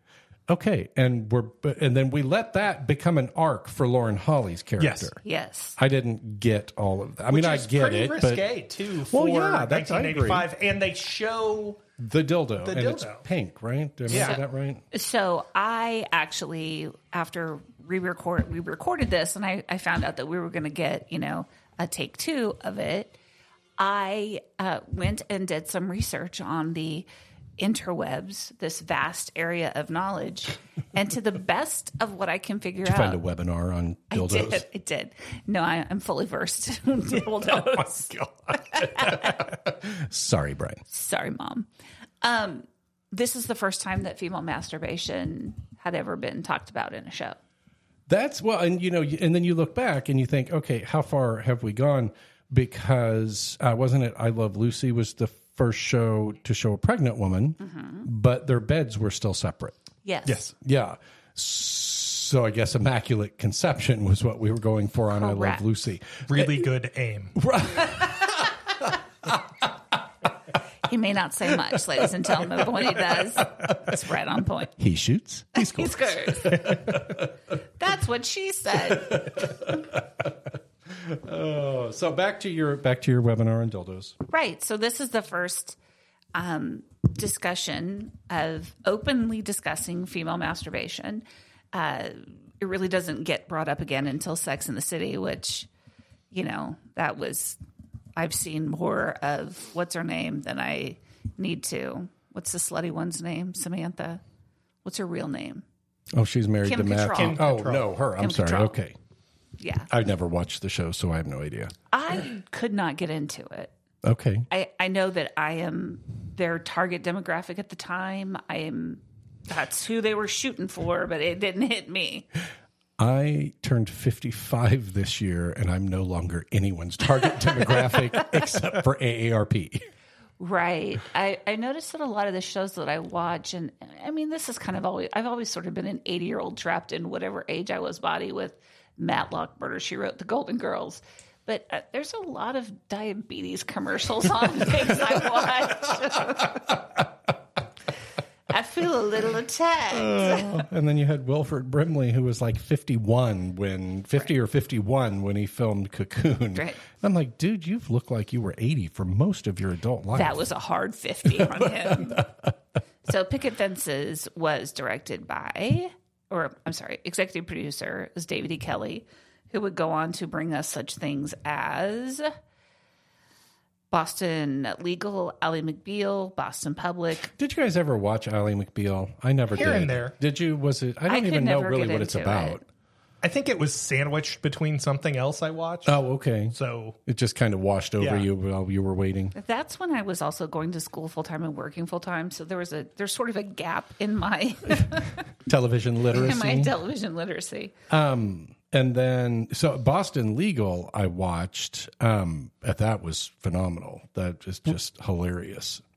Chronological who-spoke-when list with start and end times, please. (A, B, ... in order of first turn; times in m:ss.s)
0:00.5-0:05.2 A
0:04.8-0:05.1 B
0:05.2-0:05.8 C
0:05.8-0:08.5 A
0:07.3-0:11.8 B
0:09.1-0:10.5 A
0:12.0-0:14.8 A
0:12.6-0:13.2 B
0:14.1-0:14.4 B
0:14.1-0:14.4 C
0:14.9-0:23.2 C
0:23.8-0:27.1 C
0:27.6-0:33.2 C
0:32.8-0:34.6 A
0:34.1-0:39.4 C
0:38.2-0:40.8 A
0:40.9-0:41.7 C
0:42.2-0:47.4 C
0:48.1-0:59.8 A
0:57.6-0:58.1 C
1:00.0-1:00.5 C
1:00.2-1:00.5 B
1:00.6-1:06.7 A
1:05.1-1:05.6 C
1:06.3-1:07.4 B
1:07.4-1:09.4 A
1:10.8-1:14.8 C
1:13.4-1:13.9 A
1:14.8-1:17.3 A
1:15.6-1:17.0 C
1:17.8-1:19.4 C
1:18.9-1:20.3 A
1:20.9-1:24.2 A
1:24.3-1:25.8 C
1:26.3-1:35.7 C
1:36.3-1:37.6 C
1:38.2-1:44.2 C
1:44.8-1:45.6 C
1:46.2-1:49.0 A
1:46.6-1:47.5 C
1:47.1-1:47.8 B
1:48.2-1:48.8 C
1:49.6-1:49.9 C
1:49.9-1:51.7 A
1:51.9-1:53.7 C
1:54.0-1:54.5 A
1:54.5-2:02.3 C
2:03.0-2:09.8 A
2:10.4-2:26.8 C
2:28.5-2:30.6 C
2:29.9-2:40.4 A
2:40.2-2:42.3 C
2:41.4-2:42.5 A
2:43.1-2:52.3 C
2:53.9-2:57.3 C
2:57.3-3:02.6 A
2:59.5-3:00.2 B
3:01.1-3:02.6 C
3:03.2-3:06.0 B
3:05.9-3:09.4 A
3:06.5-3:07.0 B
3:08.0-3:08.3 B
3:09.4-3:15.2 C
3:15.5-3:16.7 A
3:16.1-3:17.7 C
3:17.9-3:25.8 A